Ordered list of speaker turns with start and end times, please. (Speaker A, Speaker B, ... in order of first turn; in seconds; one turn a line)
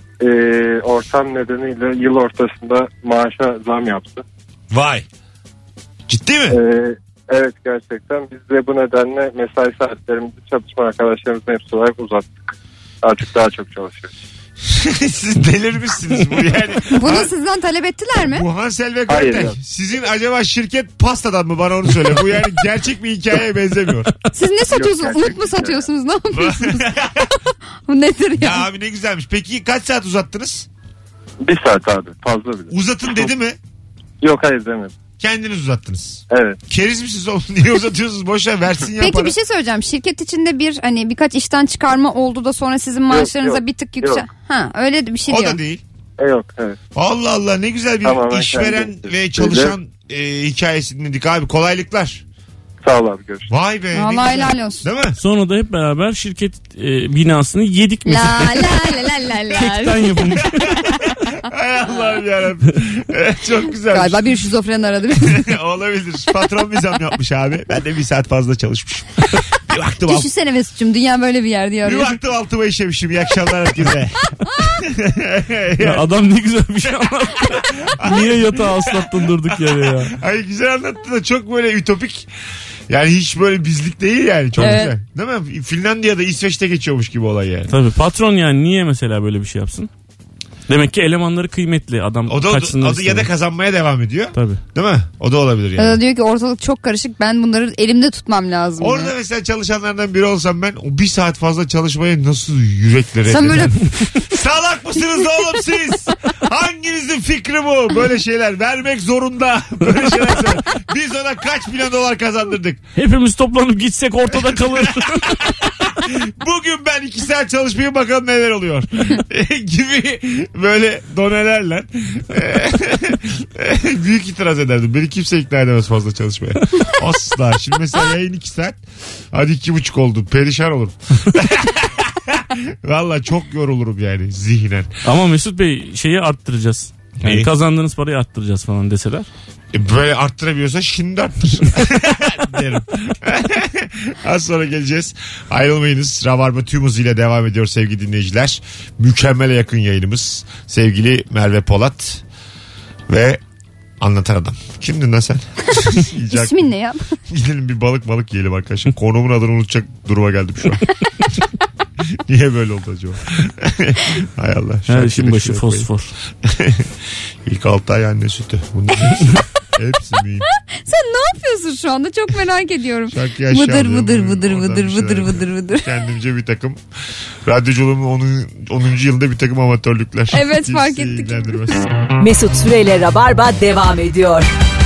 Speaker A: 0.2-4.2
Speaker B: 4.7-5.0
Speaker B: 6.1-6.6
Speaker A: 6.5-14.1
Speaker B: 14.7-17.3
Speaker C: 16.9-18.4
Speaker B: 18.2-24.1
Speaker A: 19.1-19.6
Speaker C: 24.3-28.7
Speaker A: 24.7-25.9
Speaker B: 26.3-27.2
Speaker B: 28.4-30.7
Speaker A: 31.4-33.3
Speaker B: 32.7-33.5
Speaker A: 34.2-34.9
Speaker B: 35.2-39.3
Speaker A: 36.3-36.6
Speaker C: 39.0-45.6
Speaker A: 43.1-44.2
Speaker B: 45.3-45.8
Speaker A: 46.2-46.8
Speaker B: 46.9-52.2
Speaker A: 48.0-49.7
Speaker A: 52.8-53.5
Speaker B: 53.5-55.2
Speaker C: 53.9-54.9
Speaker D: 55.2-60.8
Speaker C: 58.0-60.1
Speaker B: 60.8-64.2
Speaker C: 63.9-65.5
Speaker B: 65.2-70.3
Speaker C: 70.1-72.2
Speaker B: 71.8-76.1
Speaker D: 75.8-80.2
Speaker B: 77.5-82.3
Speaker B: 82.9-87.7
Speaker D: 84.6-84.8
Speaker C: 84.6-84.9
Speaker D: 87.7-89.9
Speaker D: 90.7-93.3
Speaker B: 92.3-96.0
Speaker D: 94.3-94.6
Speaker C: 95.8-99.1
Speaker B: 98.8-112.8
Speaker C: 103.2-103.8
Speaker D: 113.0-115.5
Speaker B: 114.3-128.8
Speaker B: 129.3-134.9
Speaker D: 135.0-139.3
Speaker B: 137.2-137.5
Speaker B: 139.7-152.2
Speaker B: 153.1-153.4
Speaker B: 154.0-156.7
Speaker C: 156.3-157.1
Speaker B: 157.3-160.8
Speaker B: 162.3-165.9
Speaker D: 164.9-166.1
Speaker B: 166.4-166.9
Speaker B: 167.4-170.5
Speaker C: 170.8-175.9
Speaker B: 173.1-176.8
Speaker B: 177.4-181.9
Speaker C: 180.3-181.7
Speaker E: 182.2-184.5